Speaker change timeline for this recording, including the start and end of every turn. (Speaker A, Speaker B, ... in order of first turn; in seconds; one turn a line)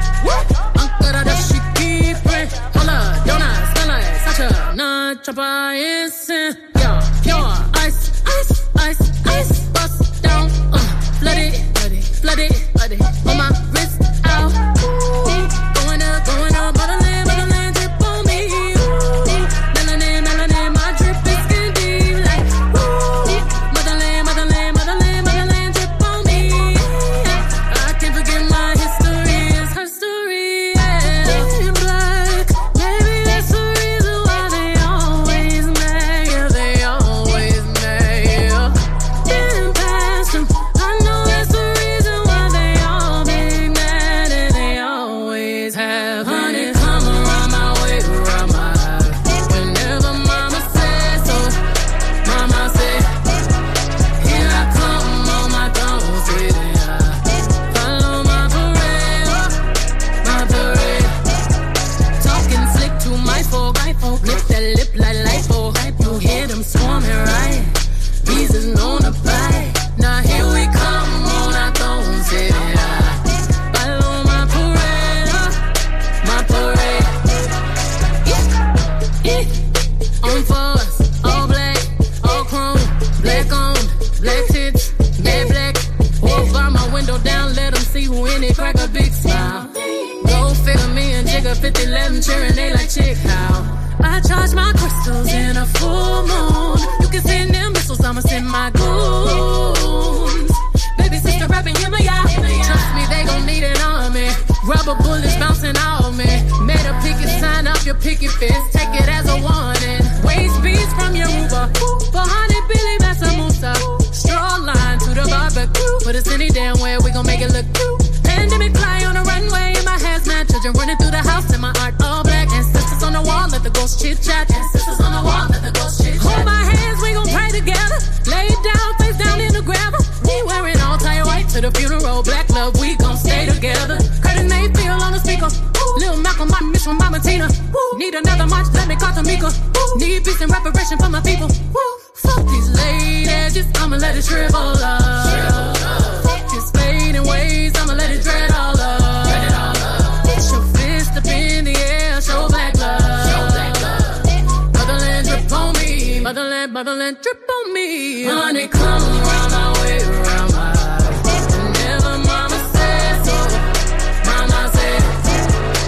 Speaker A: 0.2-51.6
Speaker A: 52.2-53.3
Speaker A: 54.2-59.6
Speaker A: 60.2-61.2
Speaker A: 62.2-75.6
Speaker A: 76.2-77.3
Speaker A: 79.2-79.6
Speaker A: 80.2-163.7
Speaker A: 164.2-165.5